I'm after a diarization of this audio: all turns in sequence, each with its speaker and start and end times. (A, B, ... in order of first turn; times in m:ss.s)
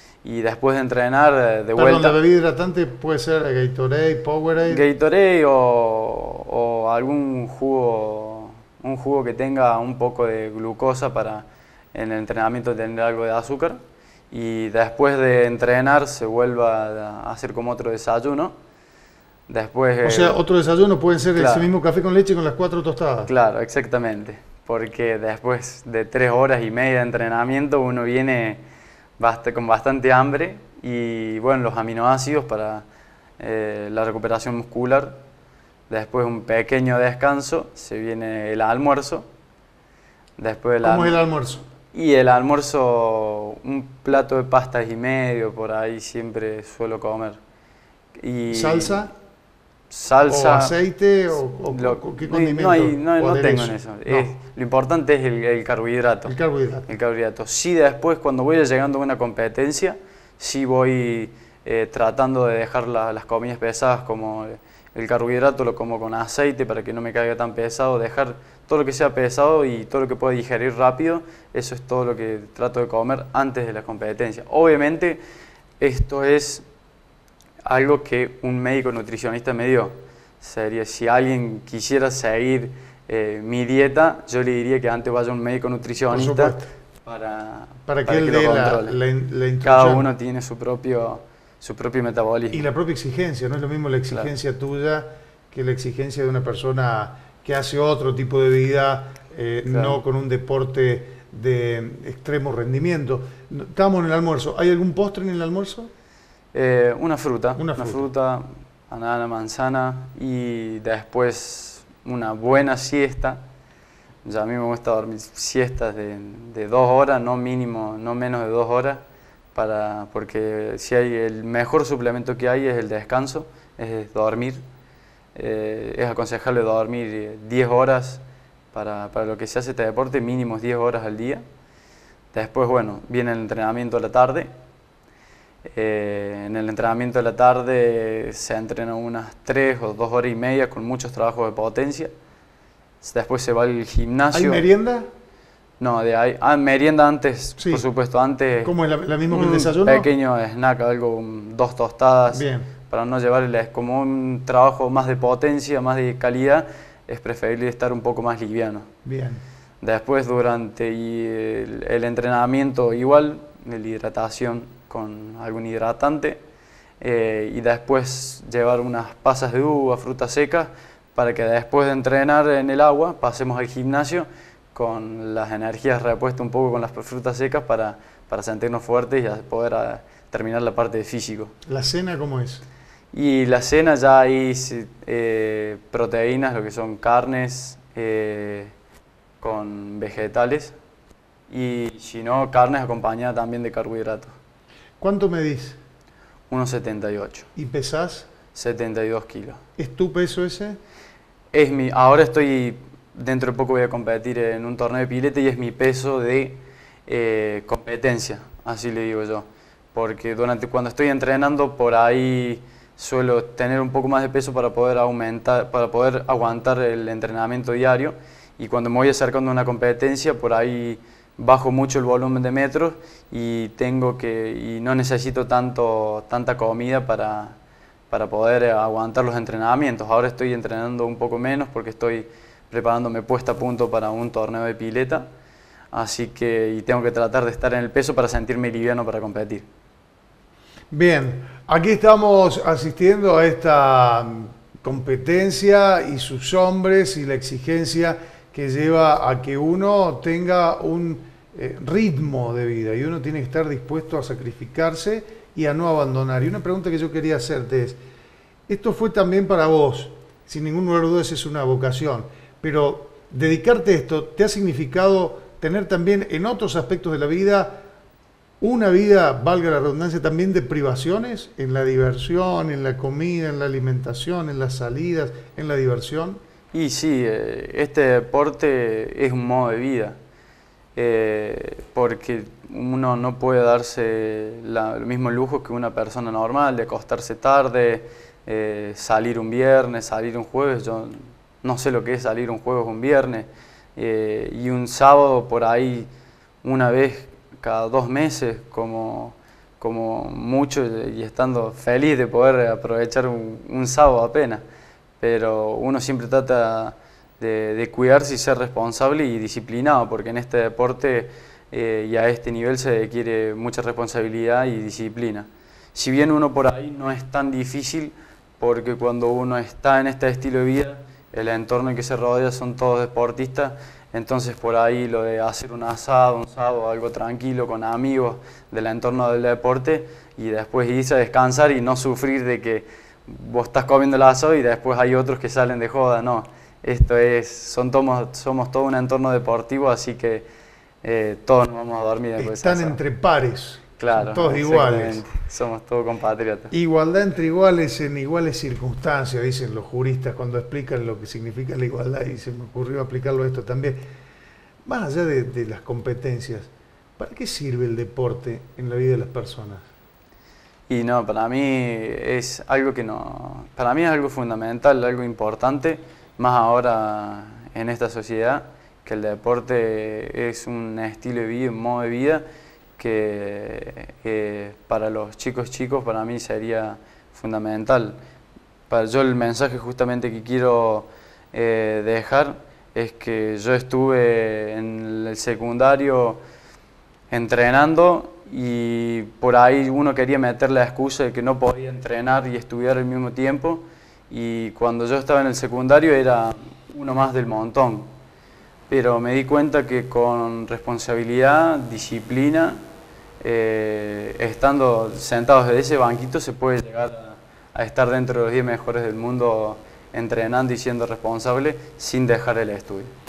0:00.2-0:02.2 A
0:01.7-0:04.8 B
0:04.6-0:13.8 A
0:14.3-0:18.5 A
0:19.5-0:20.4 A
0:20.0-0:23.3 B
0:21.3-0:21.7 A
0:23.2-0:28.6 A
0:29.2-0:32.8 A
0:33.4-0:35.2 A
0:35.9-0:39.3 A
0:40.4-0:41.2 A
0:40.8-0:41.6 B
0:41.9-0:47.4 A
0:48.2-0:49.1 A
0:48.5-0:49.1 B
0:49.9-0:50.7 A
0:50.3-0:54.3 B
0:51.3-0:56.3 A
0:56.3-0:56.9 B
0:56.9-1:15.2 A
1:15.8-1:16.6 A
1:17.6-1:29.0 A
1:26.1-1:26.7 B
1:27.9-1:30.1 B
1:29.6-1:32.7 A
1:32.5-1:45.9 B
1:39.7-1:40.0 A
1:46.5-1:53.4 A
1:47.6-1:48.1 B
1:54.2-1:59.0 A
1:59.5-2:04.6 A
2:05.3-2:11.4 A
2:12.3-2:14.5 A
2:15.6-2:22.1 A
2:23.0-2:24.7 A
2:24.3-2:25.1 B
2:25.8-2:28.7 A
2:27.6-2:27.8 B
2:28.6-2:30.1 B
2:29.3-2:38.8 A
2:32.3-2:32.7 B
2:39.0-2:39.4 B
2:39.8-2:46.4 A
2:47.0-3:01.5 A
3:01.7-3:02.6 B
3:03.1-3:08.7 A
3:09.4-3:10.7 A
3:11.5-3:14.3 A
3:15.0-3:15.8 B
3:16.5-3:17.5 A
3:17.6-3:18.3 B
3:18.5-3:19.6 A
3:19.8-3:20.8 B
3:21.5-3:47.6 A
3:48.1-3:55.2 A
3:55.9-3:59.6 A
4:00.9-4:18.0 B
4:18.7-4:27.8 B
4:28.6-4:36.4 B
4:36.7-4:40.2 A
4:41.0-4:56.1 A
4:56.6-5:04.6 A
5:05.2-5:40.4 A
5:41.0-5:43.0 A
5:42.4-5:45.2 B
5:44.0-5:46.7 A
5:46.7-5:54.0 B
5:54.8-5:59.8 B
6:00.9-6:12.4 A
6:13.0-6:18.2 A
6:18.9-6:26.4 A
6:27.3-6:38.1 A
6:38.9-6:42.8 A
6:43.4-6:53.1 A